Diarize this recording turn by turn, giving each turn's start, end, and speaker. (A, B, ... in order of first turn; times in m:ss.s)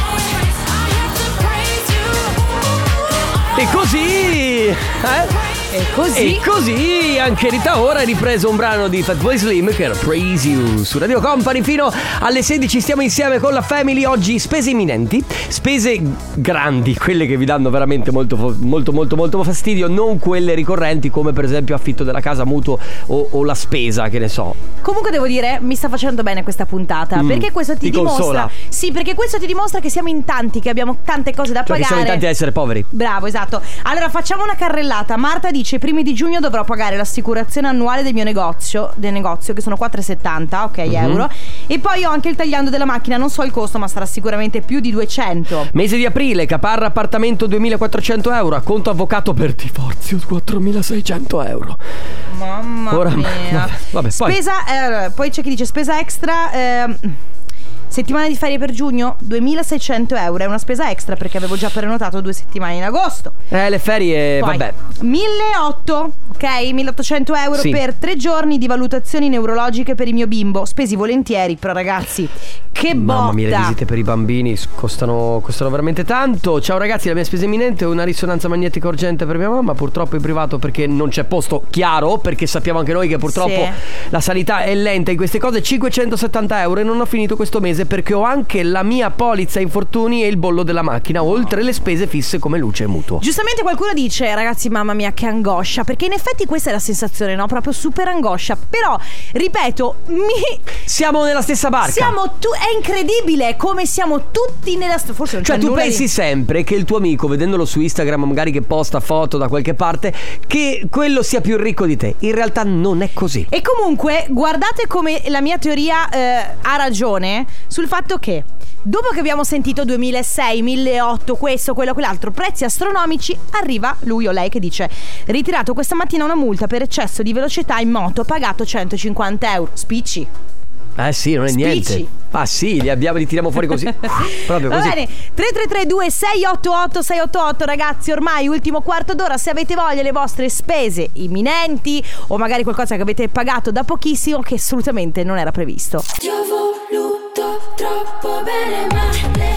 0:03.5-0:05.4 A
0:05.7-0:06.4 B
0:06.1-0:24.6 A
0:24.8-0:32.2 B
0:27.1-0:28.5 A
0:31.6-0:32.9 A
0:32.9-0:45.7 B
0:40.9-0:41.2 A
0:45.7-0:51.8 A
0:52.3-0:57.2 B
0:52.9-0:54.4 A
0:57.9-1:03.4 B
1:03.5-1:04.7 A
1:04.4-1:13.8 B
1:07.6-1:07.8 A
1:12.9-1:33.2 A
1:23.3-1:23.8 B
1:33.2-1:40.6 B
1:40.8-1:42.1 A
1:41.8-1:46.0 B
1:45.4-1:53.5 A
1:53.5-2:10.3 B
2:11.0-2:15.0 A
2:11.5-2:12.1 B
2:14.0-2:29.3 B